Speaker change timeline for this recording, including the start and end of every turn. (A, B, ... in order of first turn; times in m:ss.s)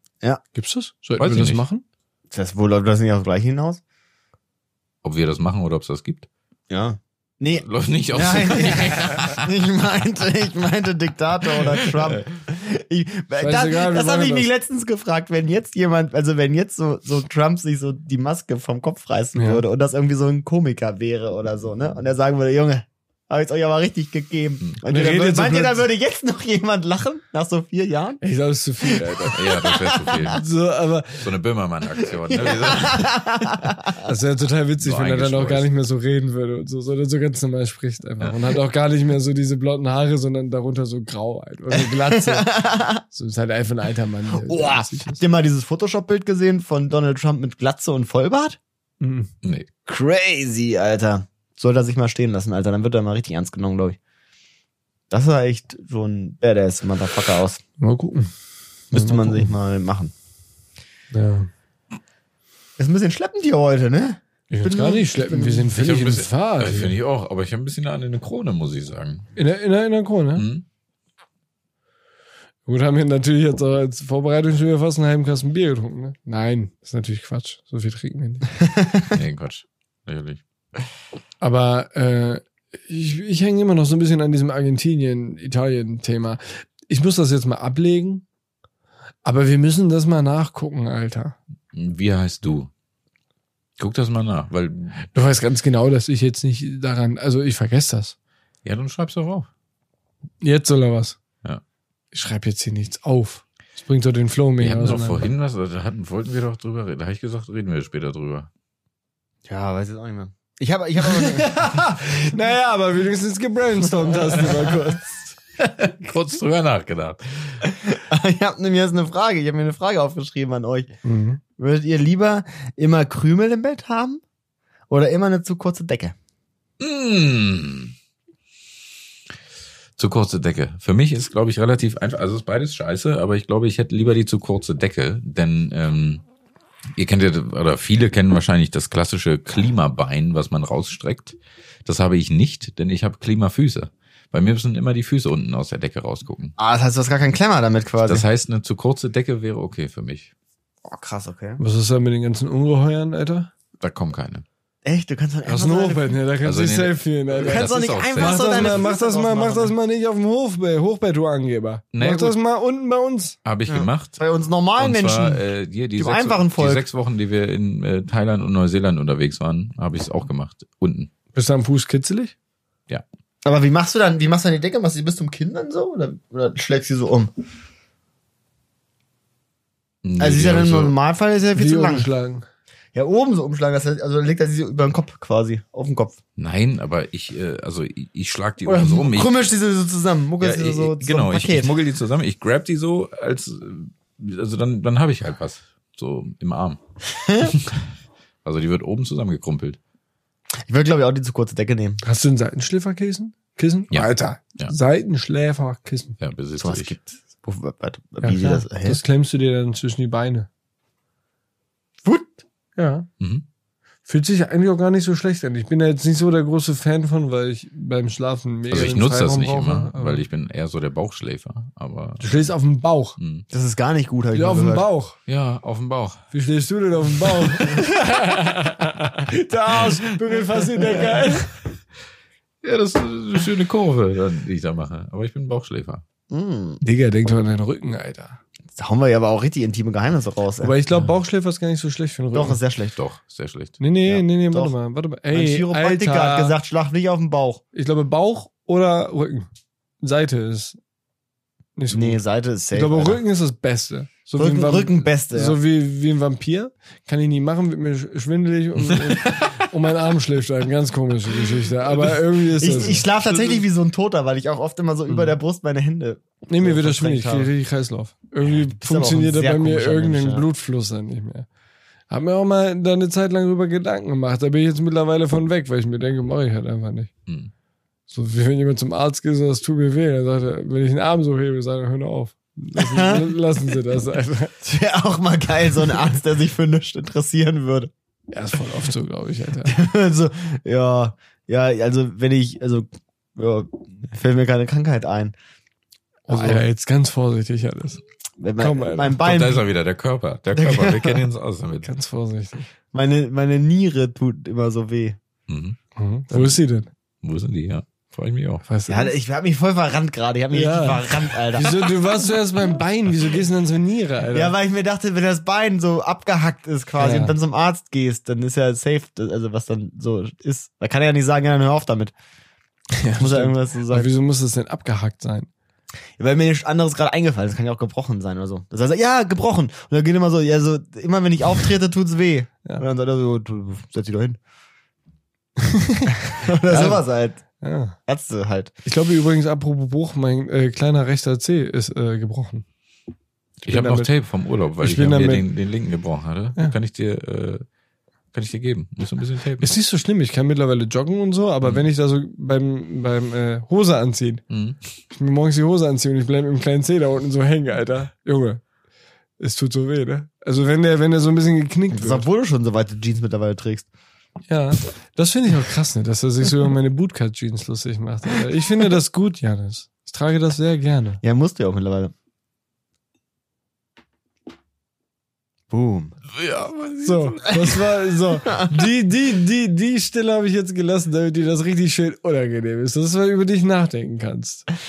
0:00.5-0:01.8 A
0:01.2-0:01.6 B
0:02.3-0:03.8 C
0:05.0-0:06.3 B
0:06.7-0:28.2 C
0:07.5-0:09.4 B
0:11.9-0:12.2 B
0:13.4-0:14.5 A
0:19.4-0:19.6 A
0:24.9-0:25.8 A
0:28.2-0:29.4 A
0:28.8-0:30.4 C
0:29.0-0:30.4 B
0:30.2-0:31.3 A
0:31.2-0:33.7 B
0:32.3-0:34.0 C
0:34.0-0:45.2 A
0:34.8-0:35.7 B
0:41.7-0:43.0 C
0:44.3-0:48.6 C
0:49.0-0:49.3 A
0:49.9-0:54.0 C
0:55.1-0:57.6 C
0:57.8-0:58.3 A
0:58.9-1:00.1 C
0:58.9-0:59.5 A
1:01.1-1:01.5 A
1:02.8-1:05.7 C
1:04.5-1:07.0 A
1:05.7-1:09.3 B
1:09.4-1:10.4 A
1:10.4-1:10.6 B
1:12.7-1:18.5 A
1:19.1-1:20.4 B
1:21.4-1:28.2 A
1:29.2-1:31.4 A
1:31.7-1:32.7 B
1:33.8-1:35.0 B
1:35.1-1:38.1 A
1:38.6-1:39.5 B
1:40.4-1:41.2 A
1:42.1-1:45.3 A
1:44.6-1:48.5 B
1:49.5-1:51.9 C
1:51.0-1:55.2 A
1:56.0-1:57.6 B
1:57.7-2:00.9 C
2:01.0-2:01.4 A
2:01.6-2:04.2 C
2:04.9-2:06.1 C
2:06.8-2:07.9 B
2:10.0-2:16.2 B
2:17.0-2:26.6 B
2:26.6-2:28.3 C
2:28.0-2:30.3 B
2:30.8-2:31.6 C
2:31.6-2:33.5 A
2:33.8-2:34.4 B
2:34.8-2:36.2 C
2:35.4-2:43.4 A
2:36.4-2:38.8 B
2:37.4-2:39.7 C
2:41.9-2:42.4 B
2:43.4-2:44.2 B
2:43.7-2:45.4 C
2:44.8-2:51.1 B
2:46.0-2:46.8 C
2:51.3-2:52.4 A
2:53.4-2:57.3 C
3:00.0-3:01.0 B
3:00.2-3:02.1 C
3:01.6-3:02.4 A
3:03.0-3:06.2 C
3:06.4-3:09.3 B
3:08.6-3:11.7 C
3:10.4-3:16.8 B
3:17.2-3:17.6 C
3:17.4-3:17.8 B
3:18.4-3:19.8 B
3:20.7-3:22.0 C
3:22.0-3:26.2 A
3:23.9-3:24.7 B
3:26.2-3:27.0 B
3:26.6-3:29.0 C
3:28.2-3:30.5 A
3:32.0-3:32.4 C
3:32.8-3:33.1 A
3:33.2-3:33.4 B
3:34.1-3:40.2 A
3:38.7-3:42.3 B
3:42.2-3:43.2 A
3:43.2-3:43.4 B
3:43.5-3:44.9 C
3:44.3-3:45.2 A
3:45.3-3:46.2 B
3:46.3-3:51.5 A
3:52.6-3:56.0 B
3:56.3-3:56.8 C
3:56.8-3:58.4 A
3:58.7-4:00.7 C
4:00.6-4:02.6 A
4:02.3-4:03.0 C
4:03.0-4:03.8 B
4:03.8-4:06.6 A
4:04.1-4:04.7 C
4:05.3-4:07.6 C
4:07.7-4:09.5 A
4:10.0-4:10.8 A
4:11.8-4:12.2 A
4:11.9-4:13.2 C
4:12.7-4:23.1 A
4:14.4-4:15.6 C
4:18.9-4:19.6 B
4:22.6-4:27.5 C
4:26.5-4:31.5 A
4:28.5-4:30.4 C
4:32.1-4:37.1 A
4:38.1-4:44.6 A
4:42.8-4:43.4 C
4:44.6-4:47.9 C
4:48.3-4:49.7 A
4:49.6-4:55.3 C
4:56.3-4:58.0 A
4:56.3-4:56.6 C
4:58.4-4:59.6 C
4:58.6-4:59.2 A
4:59.2-5:01.9 B
5:00.6-5:01.2 C
5:01.8-5:02.7 A
5:02.9-5:05.2 C
5:05.5-5:05.8 B
5:06.0-5:06.9 A
5:06.3-5:06.6 B
5:07.2-5:08.6 B
5:08.7-5:09.1 A
5:08.9-5:12.0 C
5:10.5-5:14.5 A
5:14.3-5:22.1 C
5:17.0-5:17.4 A
5:23.0-5:25.5 A
5:23.2-5:24.1 C
5:26.2-5:34.4 C
5:35.6-5:36.1 A
5:36.3-5:37.4 C
5:36.7-5:37.0 A
5:37.6-5:38.0 A
5:38.1-5:38.7 C
5:38.8-5:42.6 A
5:43.6-5:44.1 A
5:43.6-5:47.7 B
5:44.8-5:45.4 A
5:48.3-5:49.7 B
5:49.6-5:54.4 A
5:54.5-5:54.8 B
5:55.1-5:58.6 A
5:59.4-6:02.2 A
6:01.9-6:03.9 C
6:04.5-6:11.2 A
6:11.2-6:12.1 C
6:15.7-6:16.1 C
6:16.3-6:17.9 B
6:17.0-6:24.6 A
6:18.4-6:18.9 C